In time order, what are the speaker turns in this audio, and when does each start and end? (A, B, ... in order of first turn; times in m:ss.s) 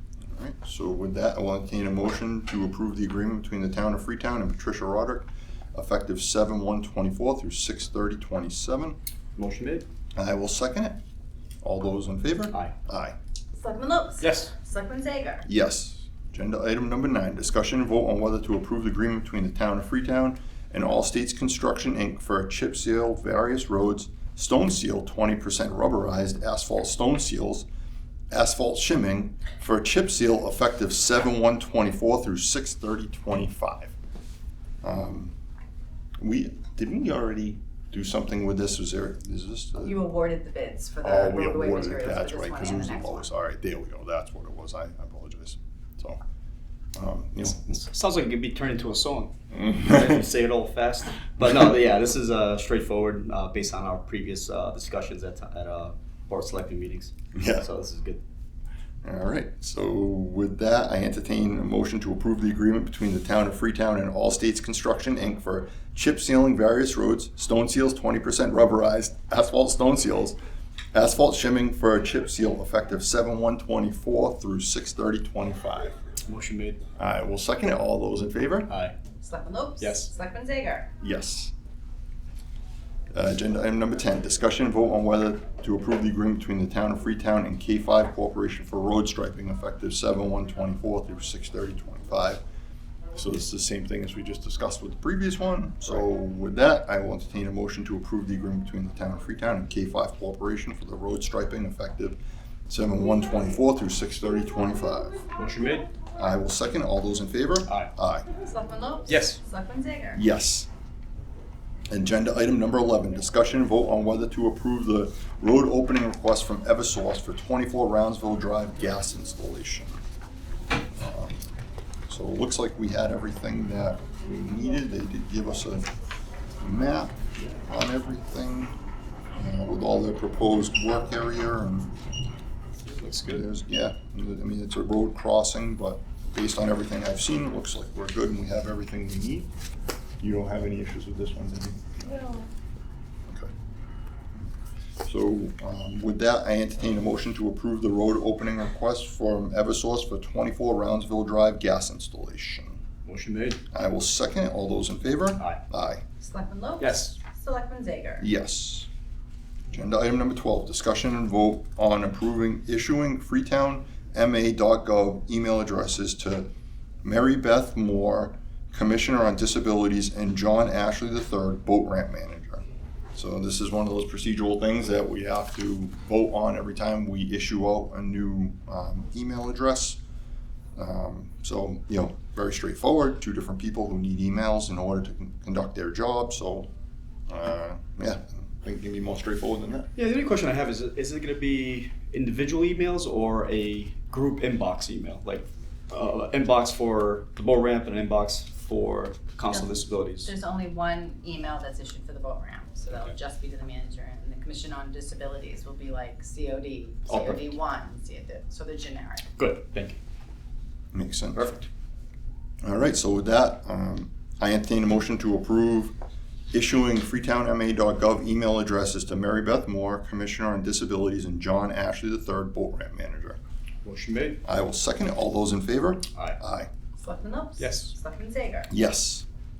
0:00.3-0:09.0 A
0:09.4-0:09.9 B
0:10.1-0:11.0 A
0:11.6-0:13.2 A
0:13.6-0:15.4 C
0:14.2-0:14.5 B
0:15.4-0:27.7 A
0:28.3-0:33.9 A
0:34.8-0:35.4 A
0:36.2-0:40.0 A
0:39.8-0:43.3 C
0:41.0-0:46.2 A
0:46.9-0:47.8 A
0:47.5-0:58.2 B
0:49.5-0:50.0 A
0:57.3-0:57.6 A
0:59.0-1:10.4 A
1:10.9-1:15.9 A
1:16.3-1:16.8 B
1:17.0-1:18.7 A
1:18.7-1:19.0 B
1:19.2-1:20.9 C
1:19.8-1:20.1 B
1:21.0-1:21.5 A
1:23.1-1:32.4 A
1:33.1-1:42.2 A
1:42.7-1:45.2 A
1:45.4-1:45.9 B
1:46.2-1:48.2 A
1:48.4-1:50.2 C
1:49.1-1:49.4 B
1:50.1-1:50.7 A
1:51.9-2:00.0 A
2:00.9-2:01.4 A
2:02.1-2:05.9 A
2:06.6-2:08.7 A
2:09.4-2:12.0 A
2:12.8-2:13.4 B
2:13.3-2:19.5 A
2:20.2-2:22.4 A
2:25.0-2:32.8 A
2:33.0-2:33.6 B
2:33.7-2:36.0 A
2:36.2-2:38.3 C
2:36.8-2:37.1 B
2:38.2-2:38.9 A
2:39.7-2:46.5 A
2:47.0-2:52.6 A
2:53.1-3:00.0 A
3:00.8-3:06.7 A
3:07.3-3:09.9 A
3:10.0-3:20.3 B
3:19.5-3:29.3 C
3:27.1-3:27.5 B
3:29.4-3:30.0 B
3:30.9-3:31.4 A
3:31.3-3:31.7 B
3:32.6-3:36.0 A
3:36.5-3:43.4 A
3:43.8-3:44.4 B
3:44.4-3:46.7 A
3:47.0-3:48.7 C
3:47.6-3:47.9 B
3:48.7-3:49.2 A